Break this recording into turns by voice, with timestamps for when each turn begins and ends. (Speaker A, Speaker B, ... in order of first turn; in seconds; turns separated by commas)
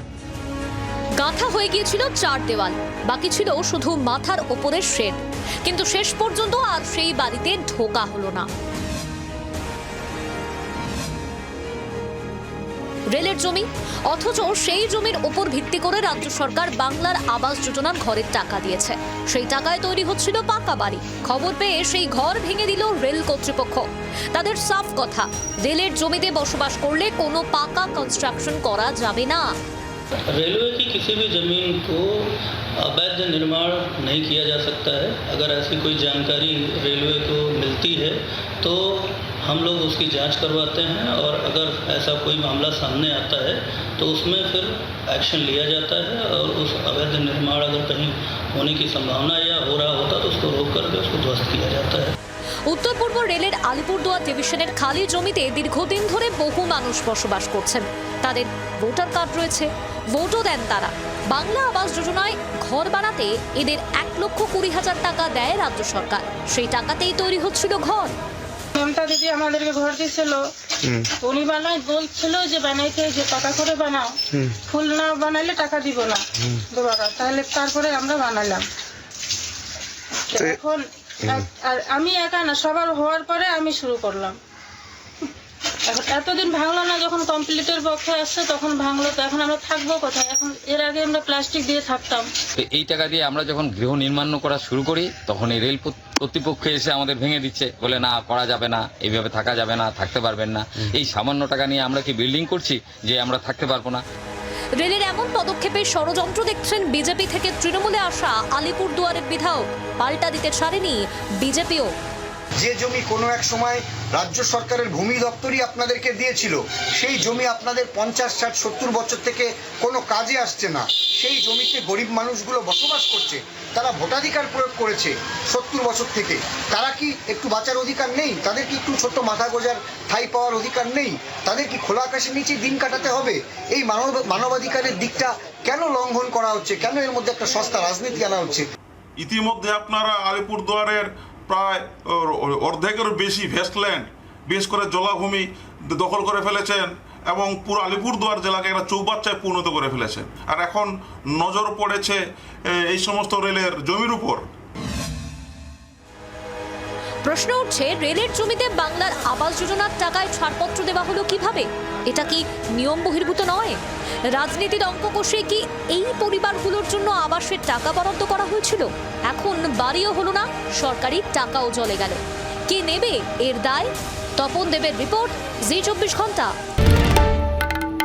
Speaker A: 1.2-8.5, Speaker A: 13.1-29.5, Speaker B: 30.3-52.1, Speaker A: 52.7-68.1, Speaker C: 68.8-70.4, Speaker C: 71.2-74.2, Speaker C: 74.7-78.7, Speaker C: 80.3-84.4, Speaker C: 85.9-92.3, Speaker D: 92.6-104.0, Speaker A: 104.8-111.9, Speaker E: 112.6-138.7, Speaker F: 139.2-154.4, Speaker A: 157.2-163.8, Speaker A: 164.3-176.5